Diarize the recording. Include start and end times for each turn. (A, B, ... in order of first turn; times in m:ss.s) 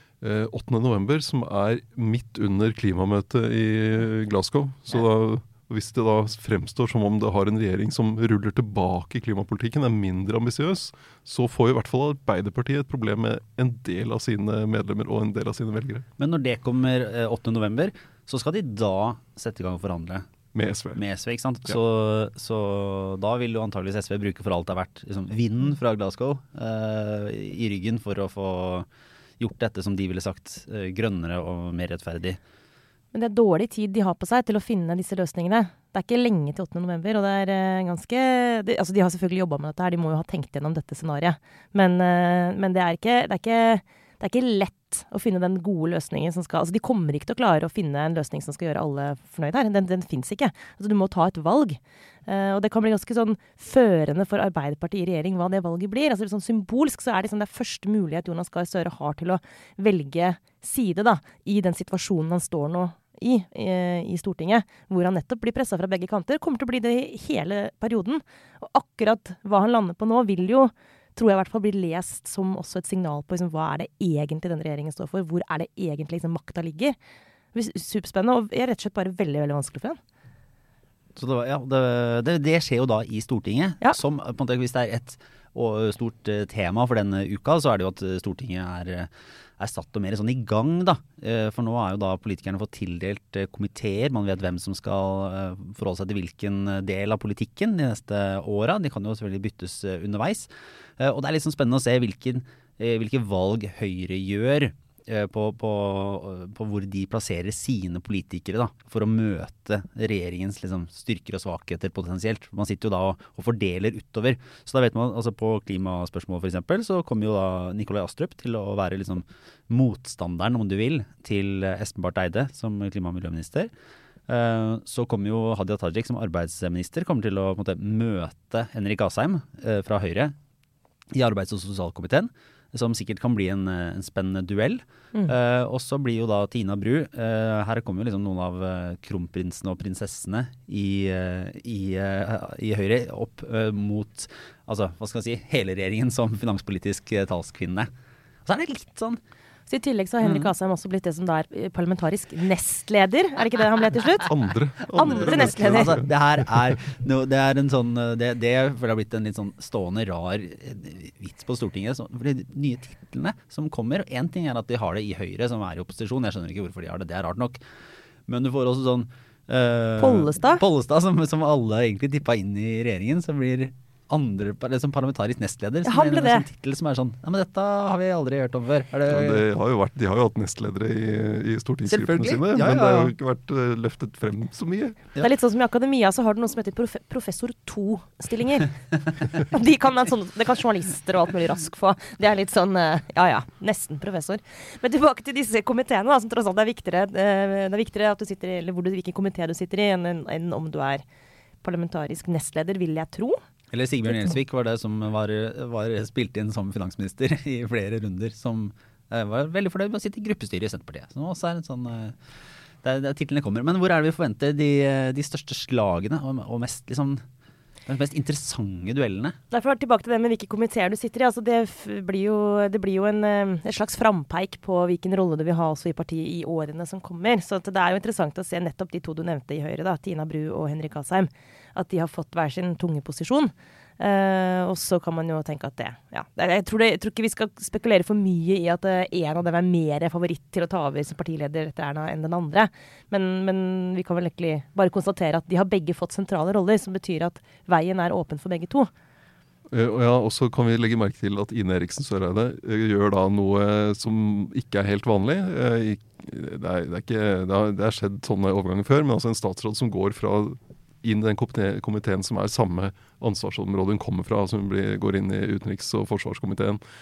0:00.2-0:16.0 A
0:16.2-0:20.3 B
0:20.5-0:21.0 A
0:21.0-0:28.9 B
0:29.4-0:32.4 B
0:33.1-1:17.0 C
1:17.5-1:20.0 C
1:21.2-2:03.7 B
2:04.3-2:10.3 B
2:11.1-2:27.9 B
2:28.4-2:29.2 B
2:29.7-2:34.3 C
2:30.2-2:30.5 B
2:34.2-2:36.1 A
2:34.9-2:36.0 C
2:35.1-2:47.6 B
2:48.3-2:59.4 B
2:50.0-2:50.6 C
2:55.8-2:56.4 C
2:59.1-3:05.0 A
3:01.9-3:03.1 B
3:05.2-3:08.7 C
3:09.4-3:21.0 C
3:21.6-3:23.4 C
3:23.7-3:32.2 B
3:32.8-3:37.2 B
3:37.8-3:39.4 B
3:39.5-4:08.9 C
4:09.7-4:26.8 A